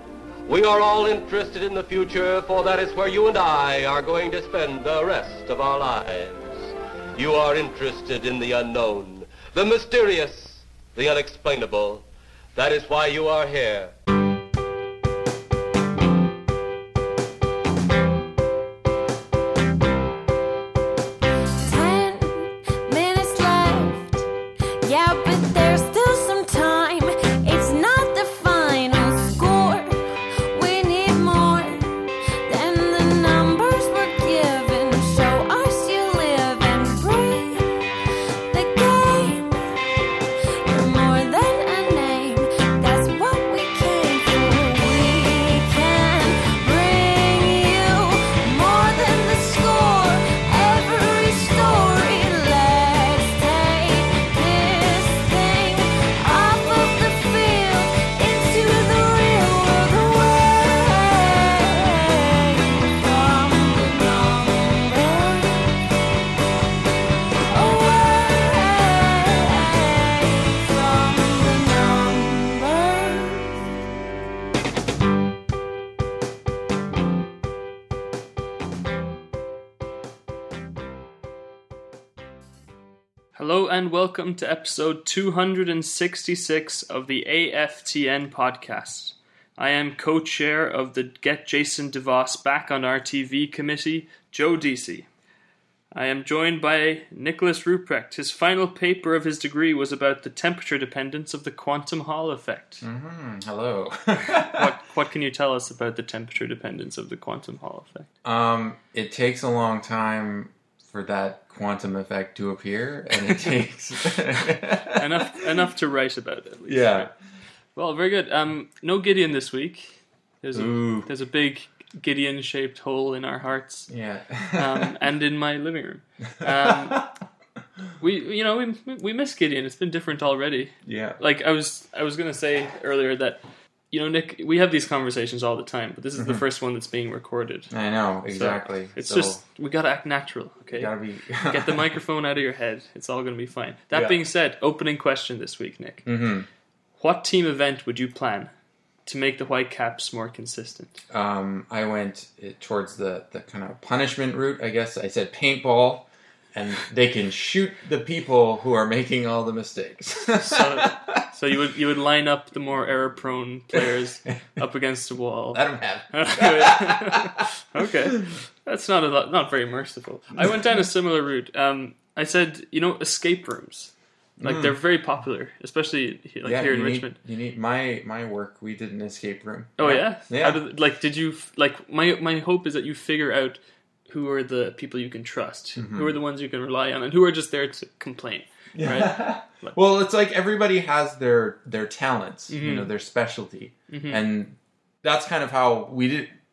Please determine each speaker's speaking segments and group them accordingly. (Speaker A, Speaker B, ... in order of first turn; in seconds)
Speaker A: 0.5-13.9
Speaker B: 21.6-24.2, 24.8-31.9, 32.5-37.7, 38.5-39.5, 40.7-65.7, 67.5-73.7
Speaker C: 83.3-95.1, 95.9-102.8, 104.2-108.1, 114.9-117.1, 117.7-123.9, 124.5-127.0, 128.0-137.7, 138.3-140.9, 141.4-146.1, 147.0-148.5, 149.1-151.0, 160.4-177.2, 179.8-189.8, 192.5-192.9, 193.9-194.2
Speaker D: 102.8-104.7, 108.2-115.3, 116.7-117.1, 120.5-121.1, 123.9-124.9, 126.4-127.1, 130.8-131.2, 136.2-136.4, 137.7-139.4, 140.8-141.8, 143.9-144.2, 146.0-146.4, 151.1-161.2, 165.5-167.8, 174.4-174.8, 176.4-180.6, 185.8-186.1, 188.8-196.3